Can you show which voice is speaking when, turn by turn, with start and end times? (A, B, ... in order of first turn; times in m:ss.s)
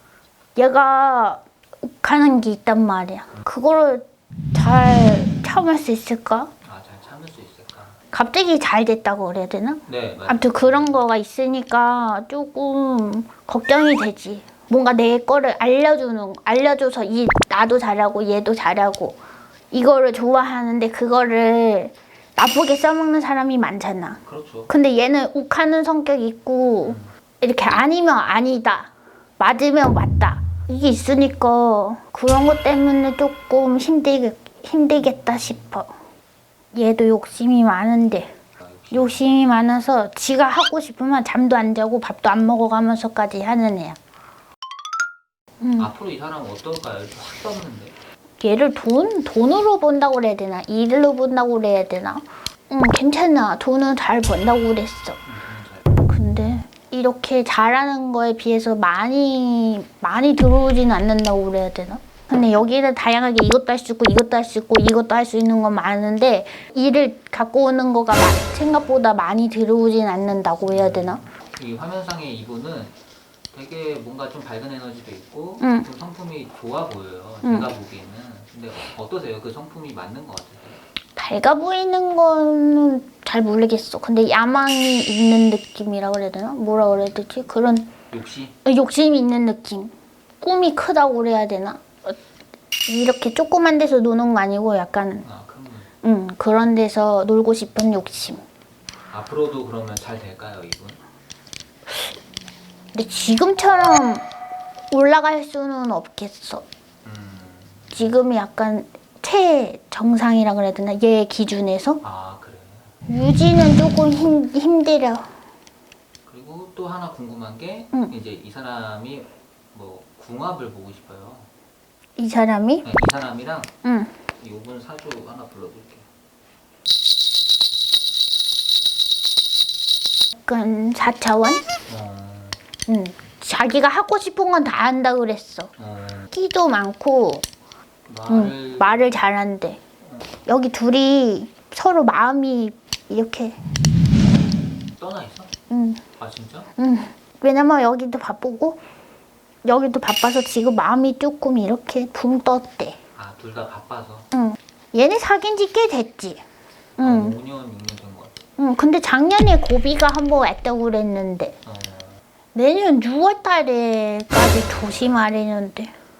0:00.6-0:06.5 A
0:06.6-0:08.0 B
0:08.1-0:19.2 A
0:09.8-0:11.0 B
0:19.7-0:35.9 A
0:24.2-0:24.7 B
0:26.8-0:27.1 B
0:36.7-0:38.3 A
0:38.6-0:39.2 B
0:38.9-0:44.0 A
0:45.6-0:45.9 A
0:45.8-0:47.9 B
0:48.4-0:55.2 A
0:55.2-0:55.9 B
0:56.0-1:11.2 A
1:10.7-1:12.9 B
1:13.5-1:20.8 B
1:15.6-1:15.9 A
1:17.4-1:17.7 A
1:21.2-1:27.9 A
1:28.1-1:28.5 B
1:28.6-1:32.2 A
1:32.9-1:35.2 A
1:35.2-1:35.9 B
1:36.0-1:38.4 A
1:39.1-1:41.0 B
1:42.9-1:44.2 A
1:44.9-1:46.6 A
1:47.0-1:48.1 B
1:47.9-1:52.0 A
1:52.0-1:52.9 B
1:53.1-1:55.3 A
1:56.3-2:01.5 B
2:02.2-2:02.8 A
2:02.8-2:03.7 B
2:03.8-2:04.1 A
2:04.3-2:06.1 B
2:10.4-2:11.6 A
2:11.9-2:12.6 B
2:12.9-2:15.7 A
2:15.8-2:16.3 B
2:16.3-2:17.4 A
2:18.1-2:19.0 B
2:18.3-2:19.8 A
2:20.4-2:23.6 A
2:25.0-2:25.5 B
2:25.7-2:26.0 A
2:26.2-2:26.7 B
2:26.8-2:28.8 A
2:29.6-2:33.0 A
2:33.2-2:34.3 B
2:34.3-2:36.4 A
2:37.0-2:37.3 A
2:37.0-2:38.4 B
2:38.6-2:41.5 A
2:41.6-2:42.2 B
2:42.5-2:45.9 A